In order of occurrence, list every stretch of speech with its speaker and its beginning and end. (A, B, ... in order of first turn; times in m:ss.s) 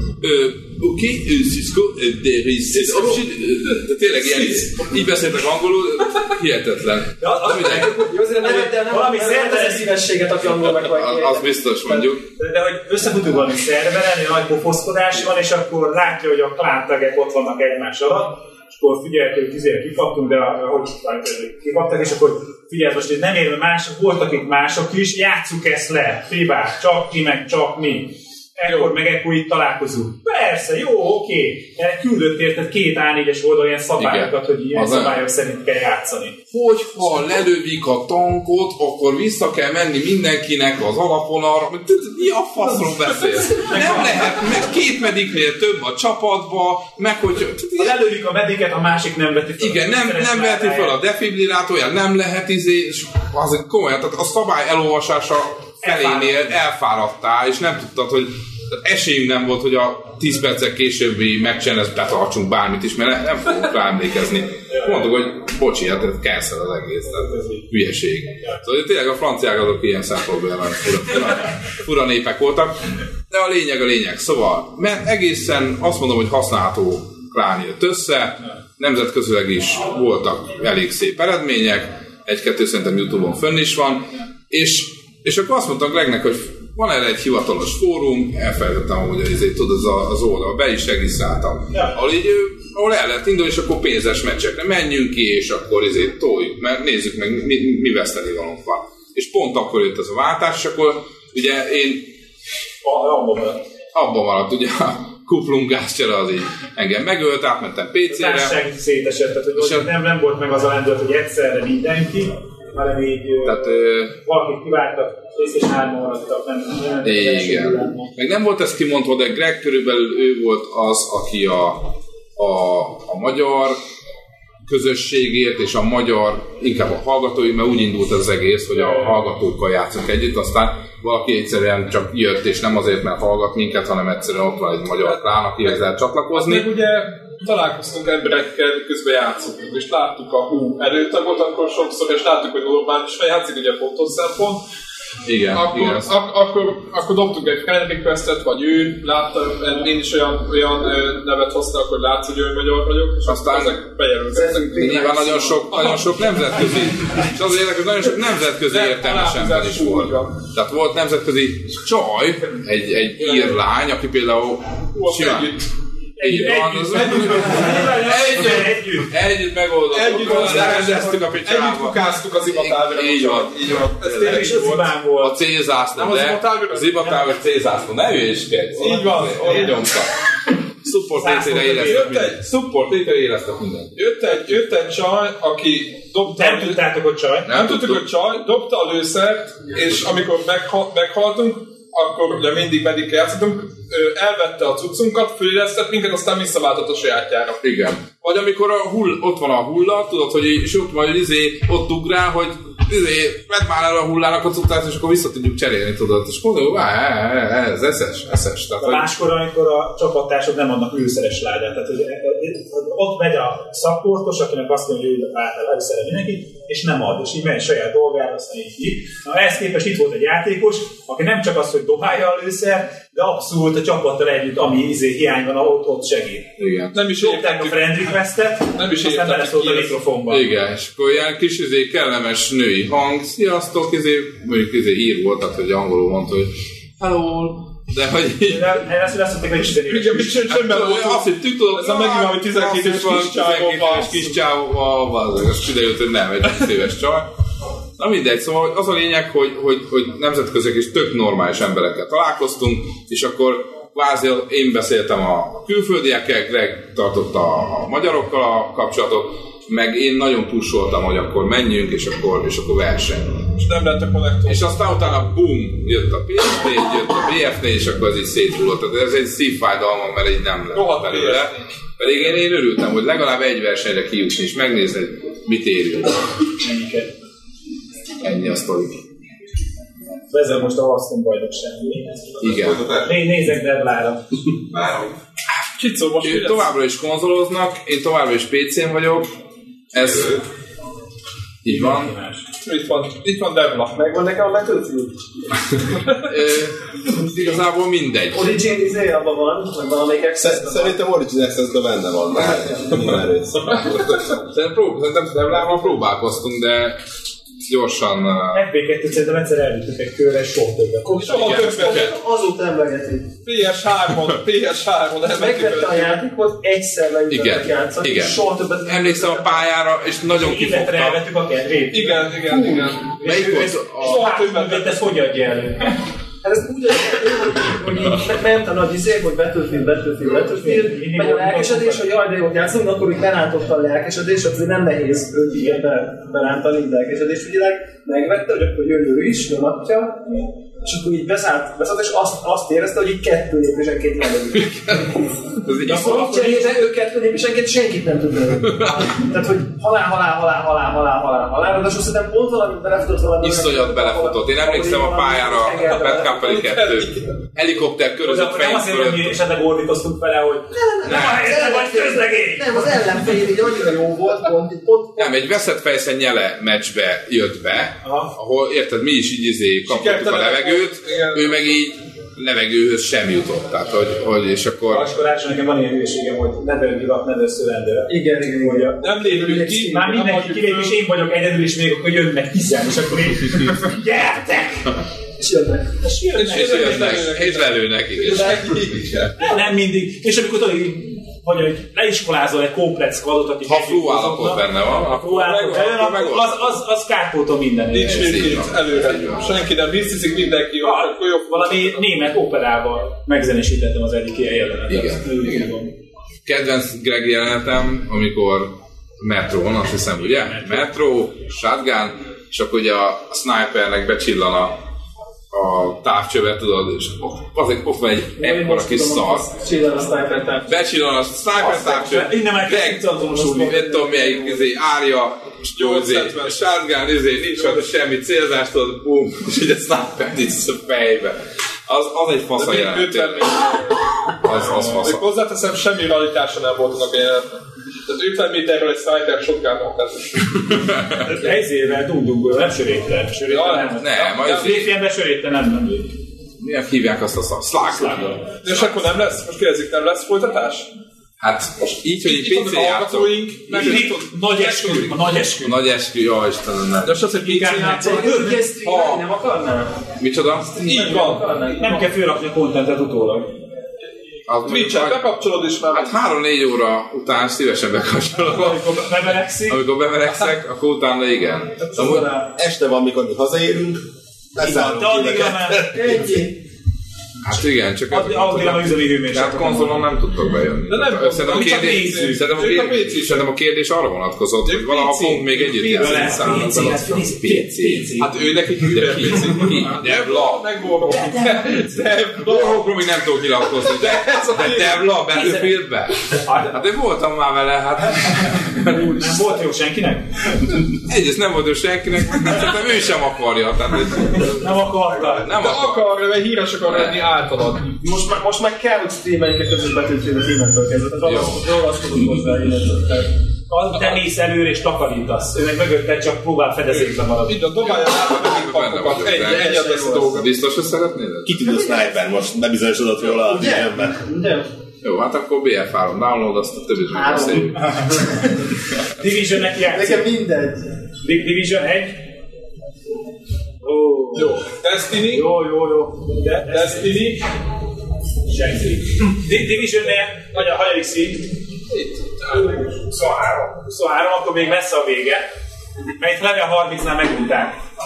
0:00.2-0:08.0 A
0:07.2-0:10.0 B
0:08.0-0:12.1 C
0:10.5-0:12.2 A
0:12.4-0:36.4 B
0:28.7-0:28.9 D
0:34.0-0:35.2 A
0:36.5-0:48.0 A
0:43.7-0:44.3 B
0:47.8-0:51.0 B
0:49.6-1:12.8 A
0:55.8-0:56.6 B
1:07.3-1:07.6 B
1:13.3-1:42.1 A
1:42.8-1:43.6 B
1:43.9-1:48.6 A
1:48.1-1:58.1 B
1:49.6-1:49.9 A
1:53.4-1:54.1 A
1:57.0-2:03.8 A
2:04.7-2:16.7 A
2:15.0-2:15.8 D
2:16.3-2:24.6 D
2:25.3-2:26.1 A
2:25.5-2:35.0 D
2:33.3-2:33.8 A
2:34.3-2:35.7 C
2:34.7-2:45.5 A
2:35.7-2:36.8 D
2:38.7-2:40.4 D
2:43.2-2:43.6 D
2:44.9-2:45.7 D
2:46.2-2:49.1 B
2:46.2-3:00.1 A
2:49.9-2:54.9 D
2:54.2-2:55.4 B
2:56.0-2:57.2 D
2:58.8-2:59.8 D
3:00.8-3:03.9 A
3:01.2-3:02.2 B
3:01.8-3:03.1 D
3:04.0-3:06.8 D
3:06.3-3:07.6 B
3:07.5-3:08.1 A
3:07.5-3:17.6 D
3:17.6-3:29.1 A
3:28.8-3:46.5 B
3:46.6-3:47.1 A
3:46.9-3:48.2 D
3:47.2-3:50.4 B
3:48.7-3:50.0 D
3:50.3-3:58.8 A
3:58.5-4:00.6 B
3:59.9-4:04.3 D
4:00.5-4:07.3 A
4:08.0-4:23.5 A
4:23.6-4:25.0 D
4:24.5-4:36.2 A
4:30.7-4:32.1 D
4:36.6-4:37.1 B
4:38.2-4:39.0 A
4:40.3-4:42.2 B
4:42.4-4:42.9 A
4:43.0-4:44.2 B
4:45.8-4:46.7 D
4:46.2-4:49.4 A
4:49.9-4:50.4 A
4:51.6-4:52.2 A
4:51.7-4:52.4 B
4:52.6-4:54.0 D
4:54.0-4:55.2 C
4:56.3-4:58.5 A
4:58.3-5:01.0 C
5:00.4-5:03.8 E
5:02.5-5:03.0 C
5:03.7-5:06.0 D
5:05.4-5:07.0 A
5:07.7-5:08.6 A
5:08.5-5:11.1 B
5:11.0-5:13.3 C
5:11.1-5:12.1 D
5:11.2-5:12.1 A
5:13.4-5:16.2 D
5:15.3-5:19.7 C
5:17.3-5:21.2 A
5:20.3-5:22.7 B
5:21.9-5:25.1 D
5:23.2-5:25.9 B
5:23.2-5:24.3 A
5:26.4-5:40.3 C
5:30.6-5:32.2 B
5:40.8-5:45.0 C
5:44.6-5:45.1 D
5:45.6-5:46.3 A
5:45.8-5:56.6 C
5:45.8-5:46.6 B
5:53.4-5:59.4 A
5:56.2-5:57.4 D
5:58.2-6:03.0 B
6:00.8-6:05.5 C
6:01.0-6:01.5 A
6:05.2-6:15.1 A
6:08.0-6:08.3 B
6:09.9-6:11.7 D
6:14.9-6:19.0 B
6:18.1-6:20.1 C
6:19.0-6:21.0 D
6:19.9-6:25.0 B
6:25.4-6:25.9 C
6:26.0-6:27.1 B
6:26.4-6:29.5 D
6:26.5-6:28.8 A
6:28.3-6:29.0 C
6:29.4-6:38.3 B
6:33.6-6:36.6 A
6:35.3-6:36.1 D
6:37.9-6:42.3 D
6:38.0-6:39.6 A
6:40.8-6:45.9 B
6:44.9-6:45.7 A
6:46.4-6:54.7 A
6:50.5-6:50.8 B
6:55.5-6:59.5 A
6:58.4-7:00.7 C
7:00.6-7:13.7 A
7:01.6-7:04.7 B
7:05.8-7:06.8 D
7:12.6-7:20.8 D
7:14.4-7:15.3 A
7:20.7-7:21.2 A
7:21.3-7:26.1 B
7:23.5-7:24.8 D
7:24.0-7:24.9 A
7:26.6-7:28.9 A
7:27.9-7:28.4 B
7:28.6-7:30.9 D
7:31.4-7:34.0 A
7:32.0-7:35.4 D
7:33.7-7:35.8 B
7:35.6-7:37.2 A
7:37.0-7:38.3 D
7:37.4-7:38.6 B
7:37.9-7:40.0 C
7:38.8-7:39.2 A
7:40.2-7:40.8 A
7:40.8-7:42.1 C
7:40.8-7:41.6 D
7:41.8-7:43.5 B
7:44.5-7:45.3 A
7:44.6-7:46.2 D
7:45.9-7:49.0 A
7:48.5-7:49.8 B
7:48.6-7:49.0 D
7:49.7-7:52.4 A
7:52.0-7:52.3 B
7:52.6-7:54.0 E
7:54.5-7:56.2 E
7:54.6-7:56.0 B
7:55.9-7:56.6 C
7:57.4-8:08.1 A
7:58.1-8:00.0 B
8:00.9-8:03.5 D
8:01.8-8:02.4 B
8:04.6-8:07.0 D
8:05.9-8:08.3 B
8:08.2-8:15.7 D
8:08.9-8:10.8 A
8:11.1-8:12.0 B
8:12.4-8:19.4 A
8:16.4-8:16.8 B
8:18.7-8:20.3 B
8:21.0-8:26.2 A
8:24.6-8:25.5 B
8:25.5-8:27.9 D
8:26.9-8:27.3 A
8:28.0-8:33.3 C
8:31.2-8:31.6 A
8:33.7-8:37.7 B
8:34.0-8:34.2 D
8:36.9-8:40.5 D
8:37.8-8:41.6 A
8:39.4-8:40.5 C
8:41.4-8:44.2 E
8:43.4-8:44.7 C
8:45.0-8:48.0 A
8:47.1-8:48.2 C
8:49.2-8:50.3 B
8:49.8-8:50.8 C
8:51.2-8:52.2 B
8:53.8-8:54.5 B
8:54.3-8:55.5 D
8:55.3-8:57.4 B
8:56.7-8:57.4 D
8:58.5-9:01.5 B
9:00.5-9:00.8 D
9:01.9-9:03.0 D
9:03.1-9:05.4 B
9:06.2-9:07.8 B